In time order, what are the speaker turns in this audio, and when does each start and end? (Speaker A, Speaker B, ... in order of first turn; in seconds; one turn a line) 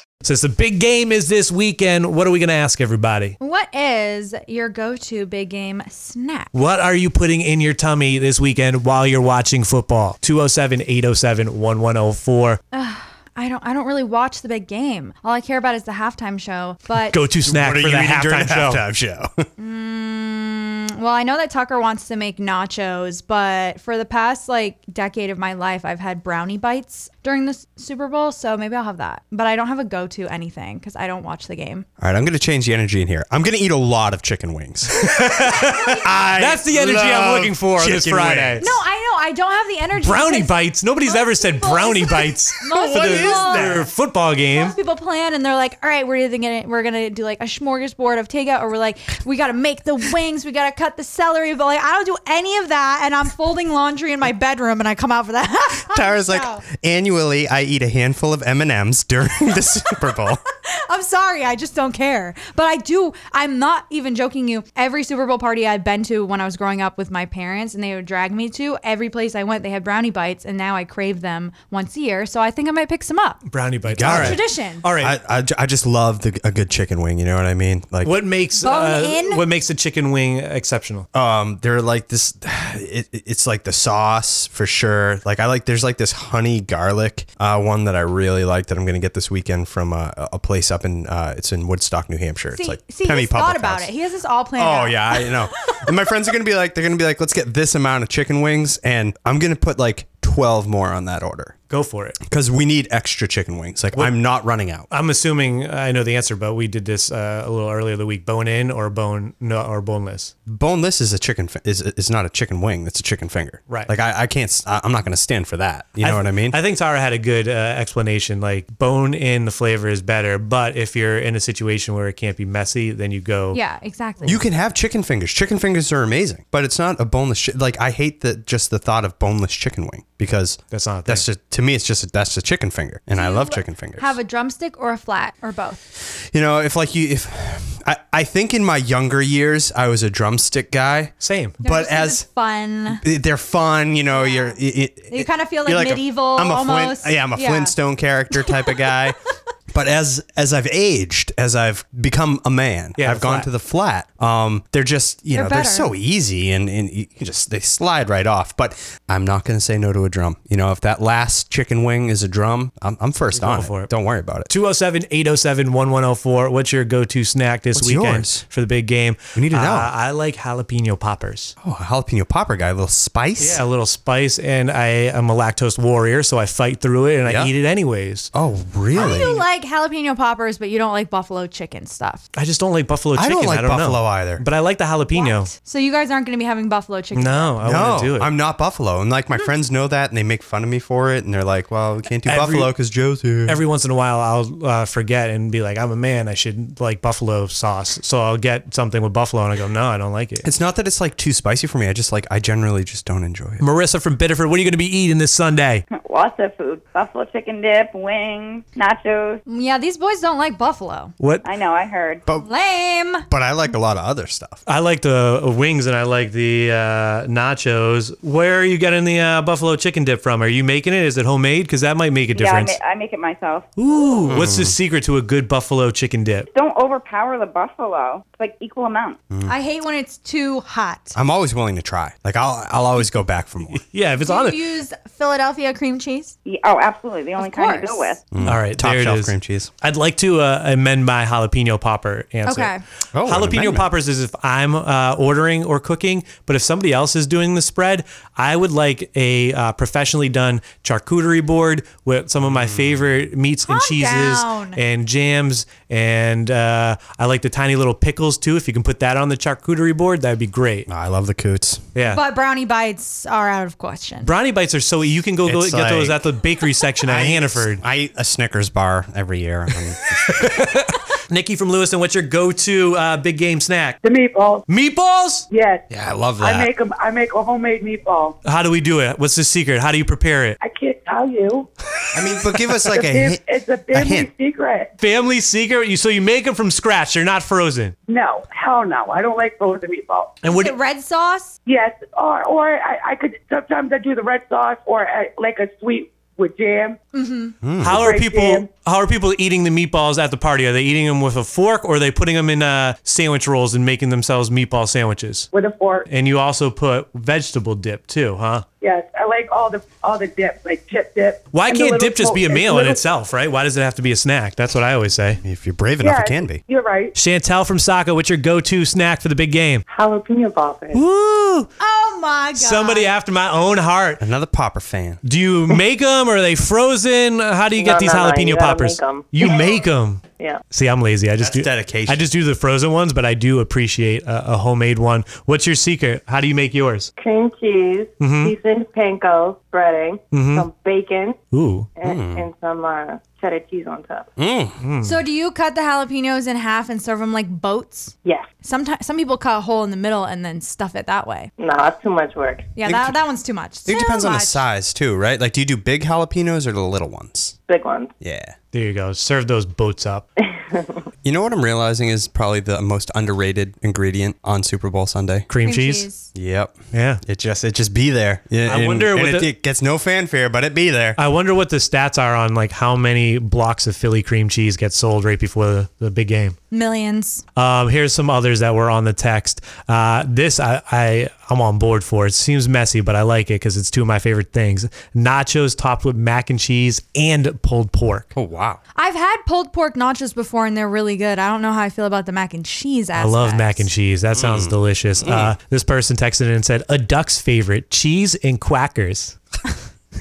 Speaker A: 0.2-3.4
Speaker B: 3.4-6.5
Speaker A: 6.5-12.6
Speaker B: 12.7-17.2
Speaker A: 17.1-18.8
Speaker C: 17.4-19.5
Speaker B: 19.6-31.9
Speaker C: 32.0-38.8
Speaker A: 34.9-38.6
Speaker B: 35.5-36.0
Speaker B: 38.6-43.9
Speaker A: 40.0-44.8
Speaker C: 42.7-43.8
Speaker B: 44.5-56.6
Speaker C: 55.8-60.4
Speaker B: 60.7-73.4
Speaker A: 73.5-75.2
Speaker C: 73.9-74.4
Speaker B: 74.0-74.8
Speaker C: 74.9-78.2
Speaker A: 78.0-81.1
Speaker B: 78.6-79.4
Speaker C: 81.1-93.9
Speaker B: 92.5-95.4
Speaker C: 94.5-101.6
Speaker A: 101.7-102.2
Speaker C: 102.2-104.9
Speaker A: 104.9-110.3
Speaker C: 110.5-116.6
Speaker A: 116.0-123.6
Speaker B: 123.5-124.4
Speaker C: 124.2-134.2
Speaker A: 130.7-131.2
Speaker B: 133.1-135.8
Speaker C: 136.0-142.2
Speaker A: 141.2-141.6
Speaker B: 141.6-143.0
Speaker C: 142.9-149.2
Speaker B: 144.1-144.6
Speaker B: 145.1-147.8
Speaker B: 148.3-149.0
Speaker C: 149.7-164.5
Speaker A: 153.0-153.5
Speaker B: 155.3-155.9
Speaker A: 163.3-163.9
Speaker A: 164.5-171.5
Speaker C: 167.7-168.4
Speaker C: 169.3-169.9
Speaker C: 171.6-173.6
Speaker A: 173.4-178.3
Speaker C: 177.2-177.5
Speaker C: 178.3-179.4
Speaker B: 178.9-182.2
Speaker A: 182.3-185.5
Speaker C: 183.1-184.4
Speaker B: 185.1-187.5
Speaker A: 187.1-188.3
Speaker C: 187.6-193.6
Speaker A: 192.2-192.7
Speaker A: 193.4-200.5
Speaker C: 200.4-203.6
Speaker A: 203.6-205.8
Speaker D: 205.9-209.4
Speaker B: 209.4-211.1
Speaker A: 211.2-211.4
Speaker D: 211.4-212.2
Speaker B: 212.4-213.3
Speaker C: 213.3-214.6
Speaker A: 214.7-222.8
Speaker D: 222.3-223.7
Speaker A: 223.8-226.5
Speaker C: 224.2-224.7
Speaker D: 226.5-229.2
Speaker B: 229.4-231.2
Speaker C: 231.1-233.8
Speaker A: 233.8-234.6
Speaker B: 234.2-236.3
Speaker D: 236.4-238.2
Speaker B: 237.4-238.1
Speaker C: 238.3-239.7
Speaker A: 238.4-242.7
Speaker B: 242.4-242.8
Speaker C: 243.1-243.9
Speaker A: 243.2-260.9
Speaker C: 252.4-253.0
Speaker B: 253.7-254.8
Speaker C: 260.9-261.8
Speaker A: 261.9-262.2
Speaker B: 262.1-264.3
Speaker A: 264.2-267.8
Speaker C: 265.4-266.2
Speaker C: 267.0-270.6
Speaker A: 270.2-274.0
Speaker E: 274.0-274.6
Speaker A: 274.7-275.5
Speaker E: 275.5-275.9
Speaker C: 275.9-276.7
Speaker E: 276.4-278.4
Speaker A: 278.4-280.6
Speaker E: 280.6-281.7
Speaker C: 282.1-284.3
Speaker E: 282.9-284.9
Speaker A: 285.0-287.9
Speaker E: 288.1-290.4
Speaker A: 290.4-290.8
Speaker B: 290.4-291.6
Speaker E: 291.6-297.0
Speaker B: 297.1-297.5
Speaker C: 297.6-298.2
Speaker A: 297.8-305.5
Speaker E: 297.9-298.7
Speaker E: 305.5-306.1
Speaker A: 306.1-308.6
Speaker E: 308.8-313.0
Speaker A: 311.5-315.4
Speaker C: 315.4-316.6
Speaker E: 316.0-317.1
Speaker A: 317.1-319.8
Speaker F: 319.9-321.0
Speaker A: 320.9-321.7
Speaker B: 321.8-323.1
Speaker A: 322.5-324.2
Speaker C: 324.2-325.2
Speaker A: 325.2-337.1
Speaker F: 327.8-329.7
Speaker C: 331.4-332.2
Speaker F: 337.2-341.4
Speaker A: 338.2-338.5
Speaker A: 340.3-340.7
Speaker A: 341.5-341.9
Speaker F: 342.0-344.3
Speaker C: 342.0-342.5
Speaker C: 344.4-344.8
Speaker A: 344.8-345.2
Speaker B: 345.0-351.5
Speaker F: 348.2-348.5
Speaker F: 351.6-352.7
Speaker B: 352.8-354.6
Speaker C: 352.8-353.1
Speaker C: 353.8-357.5
Speaker F: 357.7-358.1
Speaker C: 358.2-358.5
Speaker A: 358.7-360.2
Speaker F: 360.4-361.0
Speaker C: 361.2-365.5
Speaker A: 365.5-366.1
Speaker B: 365.6-366.3
Speaker C: 366.3-371.2
Speaker A: 366.9-367.2
Speaker A: 368.6-369.5
Speaker A: 371.2-376.6
Speaker B: 376.7-377.4
Speaker A: 377.6-388.3
Speaker C: 388.3-388.8
Speaker B: 388.9-393.9
Speaker A: 393.1-399.4
Speaker C: 394.3-395.5